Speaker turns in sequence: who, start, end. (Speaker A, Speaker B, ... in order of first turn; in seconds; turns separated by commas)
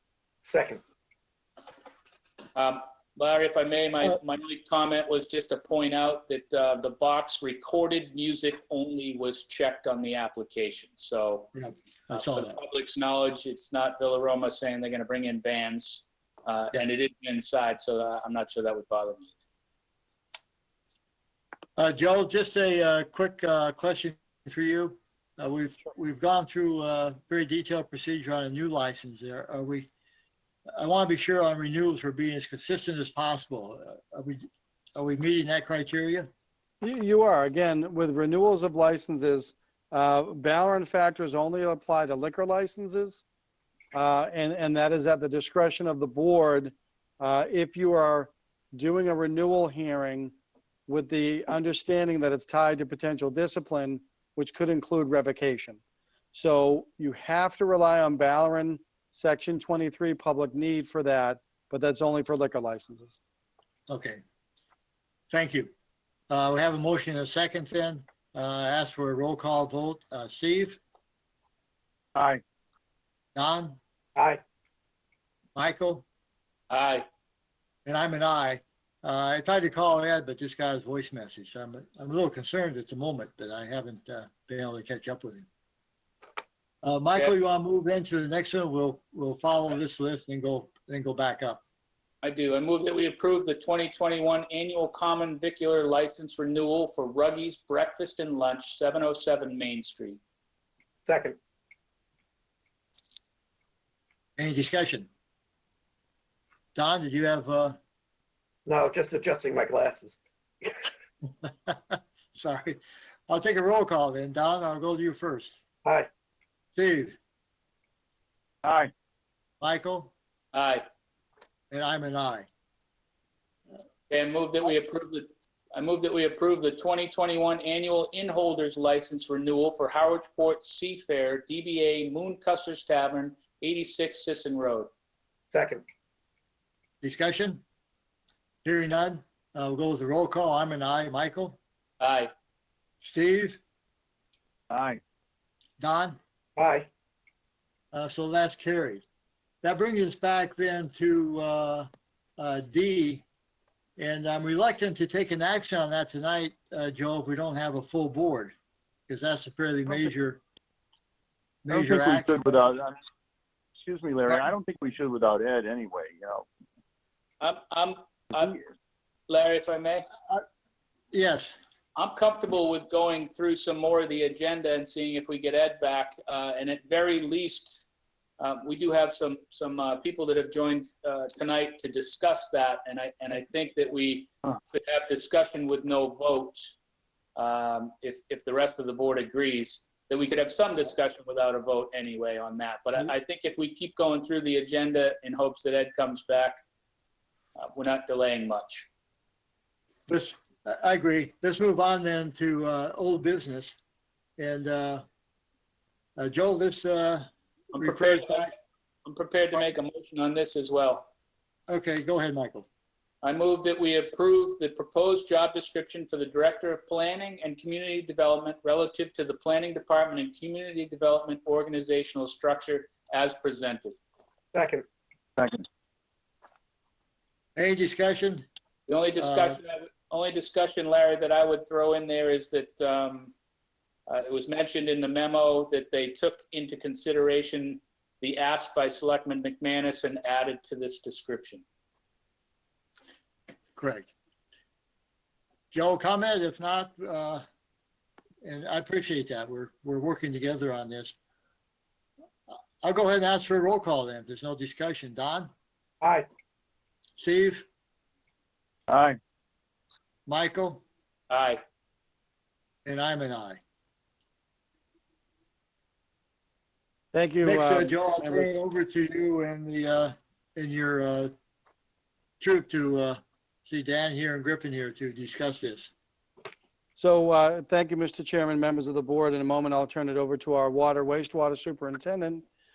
Speaker A: 0.5-0.8, Speaker B: 2.5-11.5, Speaker C: 11.5-12.6, Speaker B: 12.1-19.3, Speaker C: 21.8-29.9, Speaker C: 30.7-36.3, Speaker D: 36.8-43.2, Speaker D: 43.9-50.3, Speaker D: 50.9-55.8, Speaker D: 56.3-63.2, Speaker C: 63.9-64.2, Speaker C: 65.3-65.7, Speaker C: 66.3-70.8, Speaker E: 72.2-72.4, Speaker C: 73.3-73.8, Speaker A: 74.2-74.4, Speaker C: 75.6-76.0, Speaker B: 76.7-77.1, Speaker C: 77.9-85.5, Speaker C: 86.8-91.6, Speaker B: 92.2-100.2, Speaker A: 101.1-101.4, Speaker C: 104.4-105.1, Speaker C: 106.8-107.8, Speaker A: 108.7-110.7, Speaker C: 111.5-115.6, Speaker C: 116.8-117.2, Speaker E: 118.6-118.9, Speaker C: 119.6-120.1, Speaker B: 120.5-120.8, Speaker C: 121.7-122.5, Speaker B: 124.1-134.9, Speaker A: 135.5-135.8, Speaker C: 137.0-137.6, Speaker C: 138.7-141.6, Speaker B: 142.0-142.3, Speaker C: 143.0-143.6, Speaker E: 144.7-145.0, Speaker C: 145.8-146.2, Speaker A: 146.6-146.9, Speaker C: 147.9-149.0, Speaker C: 149.6-153.2, Speaker C: 154.0-158.5, Speaker C: 159.1-160.4, Speaker C: 161.7-162.6, Speaker E: 161.7-163.0, Speaker E: 163.8-166.5, Speaker B: 167.4-168.6, Speaker B: 169.3-170.1, Speaker C: 171.1-171.6, Speaker B: 172.0-177.9, Speaker B: 178.4-186.7, Speaker B: 187.4-196.6, Speaker B: 197.6-198.9, Speaker C: 200.1-203.8, Speaker C: 204.4-205.0, Speaker C: 206.2-208.5, Speaker B: 207.7-208.5, Speaker B: 209.1-211.1, Speaker C: 211.7-212.7, Speaker B: 213.2-224.0, Speaker A: 224.5-224.8, Speaker E: 225.4-225.6, Speaker C: 227.6-228.5, Speaker B: 228.9-233.3, Speaker C: 229.2-229.6, Speaker B: 234.1-241.6, Speaker C: 243.8-244.1, Speaker C: 245.7-247.4, Speaker C: 248.4-251.2, Speaker C: 252.5-255.5, Speaker A: 256.0-256.3, Speaker C: 257.2-257.6, Speaker E: 258.9-259.2, Speaker C: 260.3-260.8, Speaker B: 261.3-261.6, Speaker C: 262.9-263.6, Speaker D: 267.1-268.6, Speaker C: 267.4-271.3, Speaker C: 272.4-275.9, Speaker D: 277.0-282.4